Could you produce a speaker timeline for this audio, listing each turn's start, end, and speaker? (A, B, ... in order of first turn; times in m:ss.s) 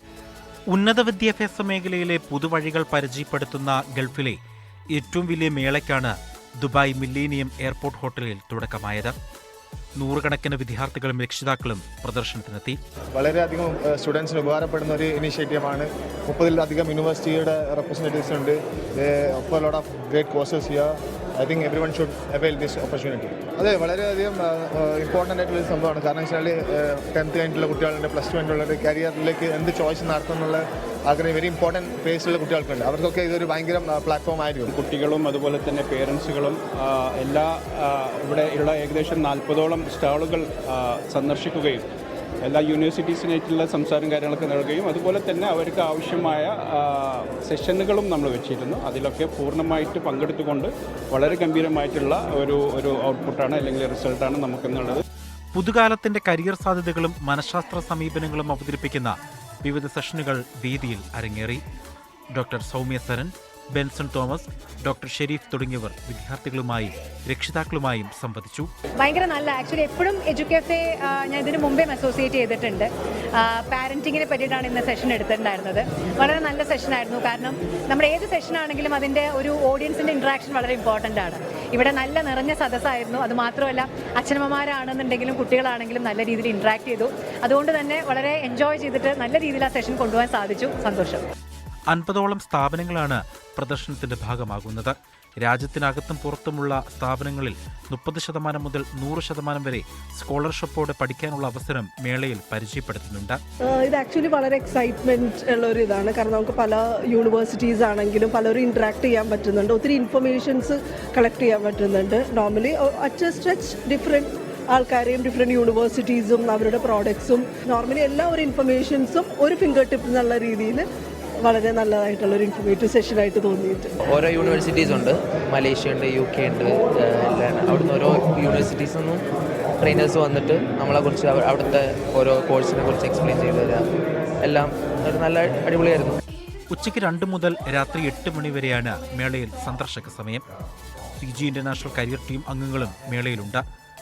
0:00.7-0:04.4 A
0:04.9-0:09.1 A
0:10.0-0:12.8 A
0:13.1-0:34.7 B
0:34.7-0:41.8 C
0:42.4-0:55.0 C
0:55.5-1:01.6 A
1:02.3-1:08.7 A
1:09.0-1:31.2 D
1:31.9-1:43.4 A
1:43.6-2:00.8 E
2:01.4-2:03.9 E
2:04.1-2:09.2 F
2:09.8-2:13.9 F
2:14.4-2:16.2 F
2:16.7-2:20.4 A
2:21.2-2:23.6 A